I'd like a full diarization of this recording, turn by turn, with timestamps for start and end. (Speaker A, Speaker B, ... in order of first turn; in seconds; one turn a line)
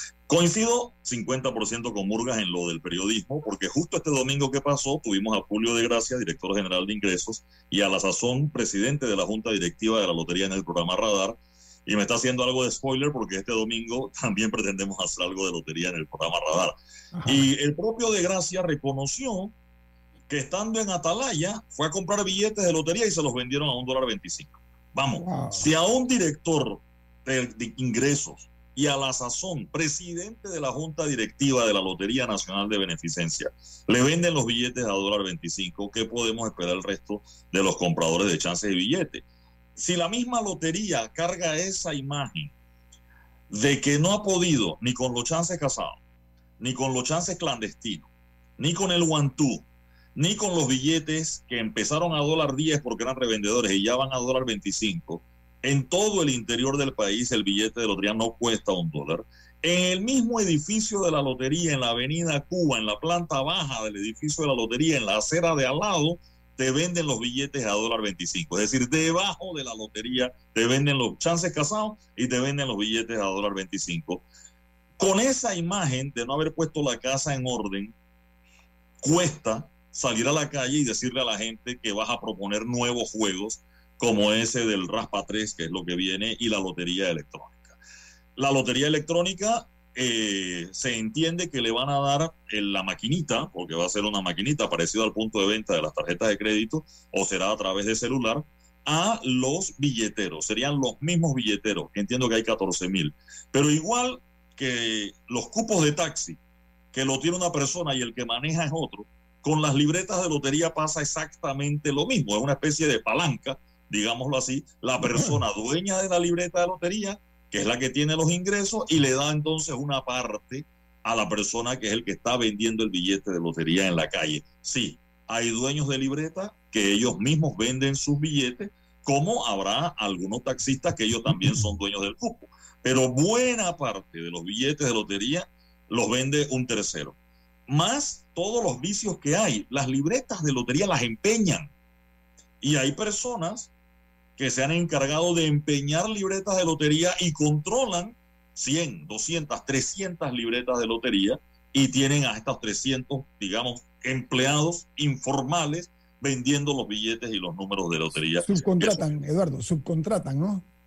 Speaker A: 0.3-16.8
Speaker B: 17.1-17.5
Speaker A: 17.3-19.5
Speaker A: 20.3-39.2
Speaker B: 25.2-25.7
Speaker A: 39.8-42.5
Speaker A: 43.5-46.0
Speaker A: 46.6-74.2
Speaker A: 75.0-77.9
Speaker A: 79.0-87.8
Speaker A: 88.4-106.4
Speaker A: 106.9-137.2
Speaker B: 115.0-115.4
Speaker B: 131.3-131.7
Speaker A: 137.7-141.7
Speaker A: 142.6-143.7
Speaker A: 144.4-159.1
Speaker B: 158.4-160.7